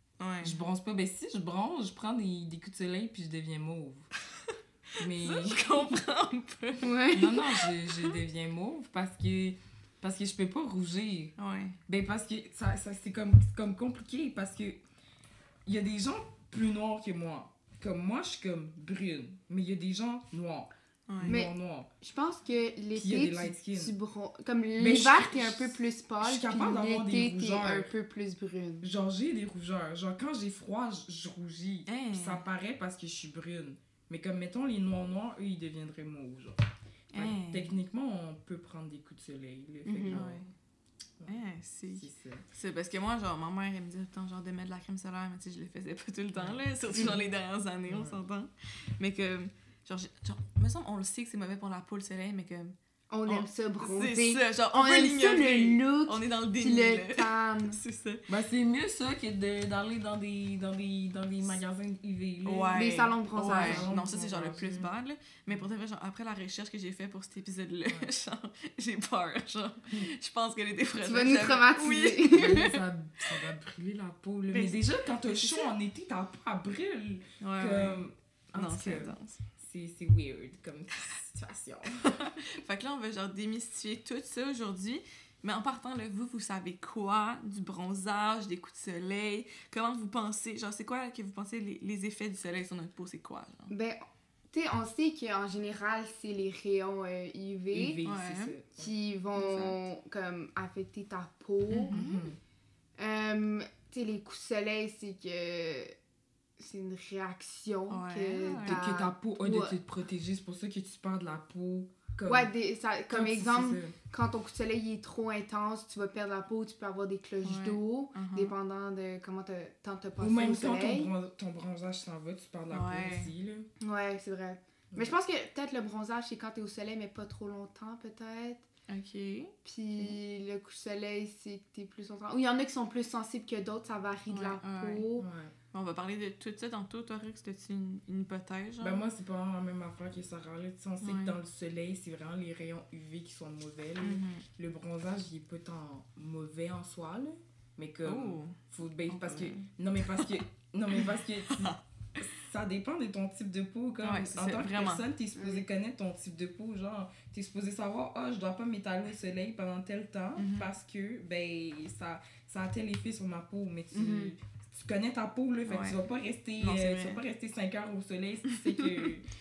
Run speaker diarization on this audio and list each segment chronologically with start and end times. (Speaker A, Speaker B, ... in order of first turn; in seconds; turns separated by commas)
Speaker A: 0.2-0.6, Speaker B: 0.4-4.1, Speaker A: 4.5-8.2, Speaker B: 5.0-5.7, Speaker C: 6.8-7.4, Speaker B: 7.1-11.3, Speaker A: 11.4-11.8, Speaker B: 11.9-14.8, Speaker B: 15.7-21.9, Speaker A: 21.1-21.4, Speaker C: 21.2-28.9, Speaker B: 22.9-23.9, Speaker B: 24.8-27.9, Speaker B: 28.8-40.5, Speaker A: 31.9-32.5, Speaker A: 37.1-37.7, Speaker C: 39.9-40.2, Speaker A: 40.1-40.5, Speaker A: 41.3-52.8, Speaker B: 41.9-42.5, Speaker B: 46.4-47.2, Speaker B: 47.9-48.2, Speaker C: 53.1-57.8, Speaker A: 53.3-58.3, Speaker B: 58.3-64.9, Speaker A: 62.5-73.5, Speaker C: 62.7-63.9, Speaker B: 67.9-68.1, Speaker C: 71.0-72.6, Speaker B: 72.3-82.2, Speaker A: 74.5-75.7, Speaker A: 77.4-78.0, Speaker A: 78.5-79.4, Speaker A: 82.0-93.7, Speaker C: 93.7-98.0, Speaker B: 97.7-98.9, Speaker A: 98.0-98.6, Speaker C: 98.8-102.0, Speaker A: 99.4-99.8, Speaker A: 101.7-102.3, Speaker B: 101.9-102.4, Speaker C: 103.0-105.9, Speaker C: 106.6-109.8, Speaker A: 107.9-108.8, Speaker B: 108.6-112.5, Speaker C: 112.3-121.1, Speaker B: 113.1-114.0, Speaker A: 117.4-118.5, Speaker B: 120.2-123.7, Speaker A: 122.7-123.3, Speaker C: 123.8-128.7, Speaker A: 128.9-130.2, Speaker C: 129.6-135.3, Speaker A: 134.3-135.1, Speaker B: 135.2-135.5, Speaker A: 135.7-139.0, Speaker B: 138.8-169.3, Speaker A: 141.0-141.4, Speaker A: 144.0-144.4, Speaker A: 148.0-150.3, Speaker A: 151.0-151.8, Speaker A: 154.0-155.0, Speaker C: 155.3-155.7, Speaker A: 160.4-160.7, Speaker C: 163.9-164.3, Speaker A: 165.7-166.0, Speaker A: 166.6-167.2